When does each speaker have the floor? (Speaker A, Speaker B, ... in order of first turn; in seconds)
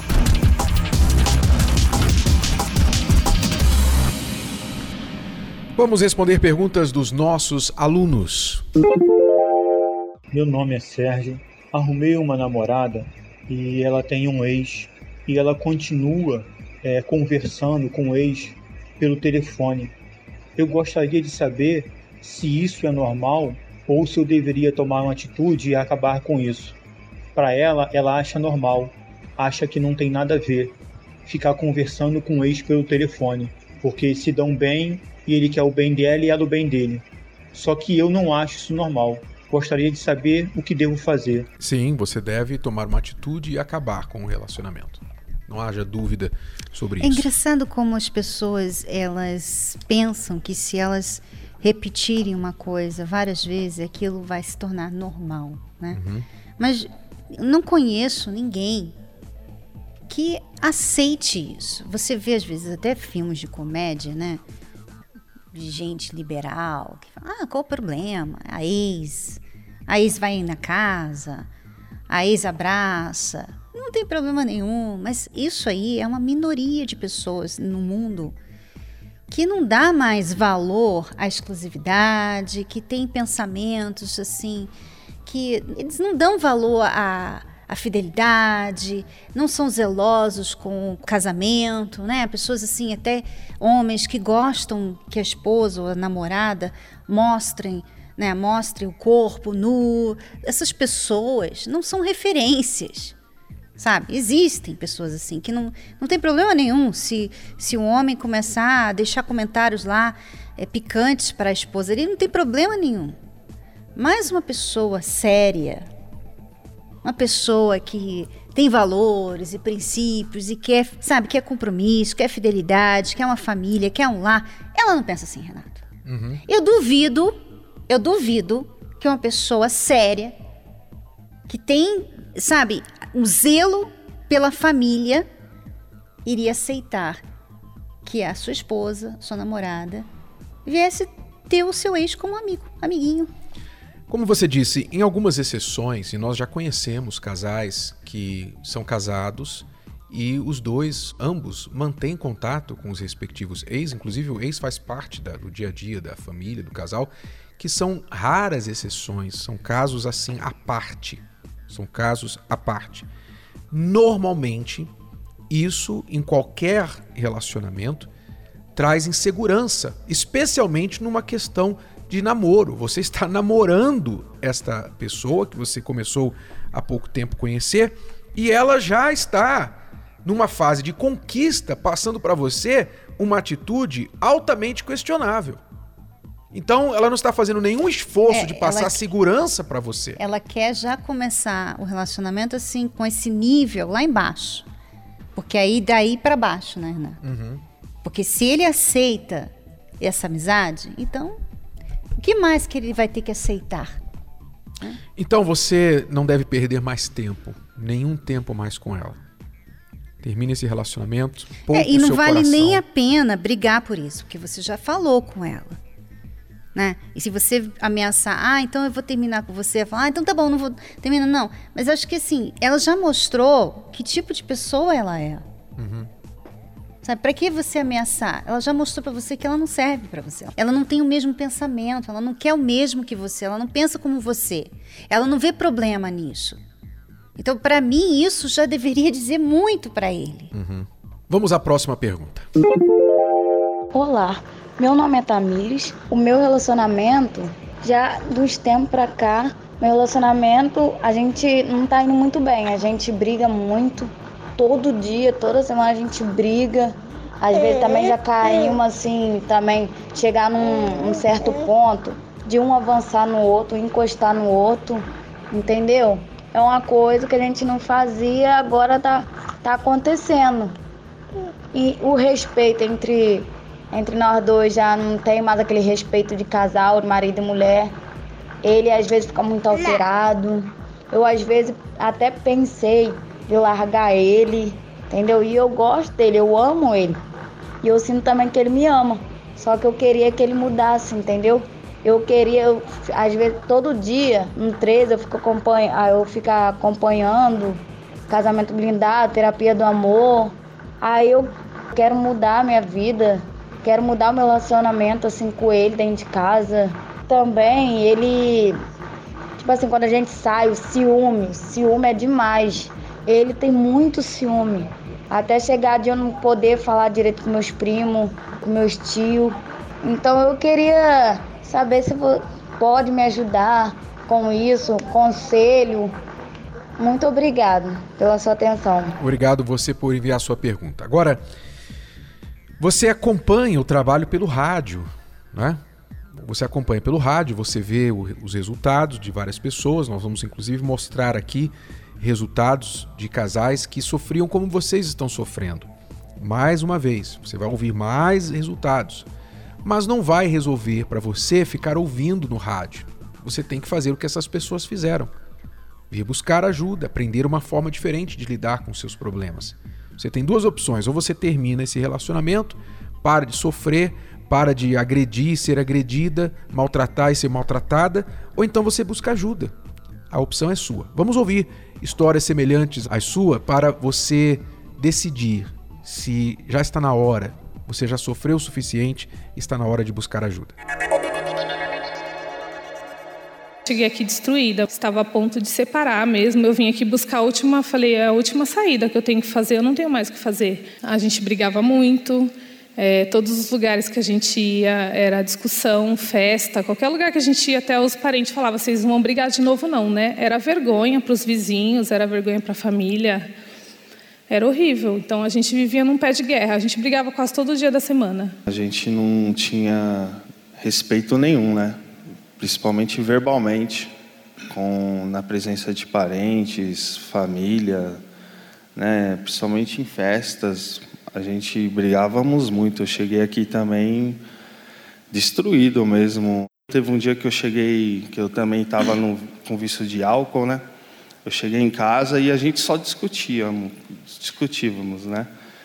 Speaker A: 5.8-8.6, 41.6-47.2, 55.9-56.2, 126.0-126.4, 144.1-163.1, 163.7-164.9, 165.5-168.1, 168.8-185.6, 186.5-190.2, 197.2-197.6, 205.2-209.2, 210.2-212.8, 225.8-226.1, 240.5-242.5, 329.2-331.4, 332.8-335.8, 336.4-349.3, 349.8-355.3, 356.1-369.7, 370.3-380.7
Speaker B: 10.3-19.9, 20.6-26.8, 27.4-30.7, 31.3-41.5
Speaker C: 47.0-56.0, 56.6-59.0, 60.1-64.4, 65.5-71.5, 72.1-78.4, 79.3-84.7, 85.2-103.2, 103.8-113.2, 113.9-115.9, 117.0-125.8, 126.5-127.4, 127.9-130.3, 131.5-135.2, 136.2-137.2, 138.0-140.1, 140.6-143.3, 188.3-189.1, 190.2-194.7, 195.3-197.2, 198.0-201.4, 202.2-204.0, 211.7-215.8, 216.7-225.4, 227.0-236.6, 237.4-240.5
Speaker D: 243.9-270.8, 271.7-277.9, 278.6-287.2, 287.8-308.8, 309.6-326.1, 327.0-329.2
Speaker E: 383.9-403.5, 404.5-408.5
Speaker F: 408.7-412.0, 412.6-414.1, 414.7-418.2, 418.9-424.4, 425.3-430.8, 431.4-435.5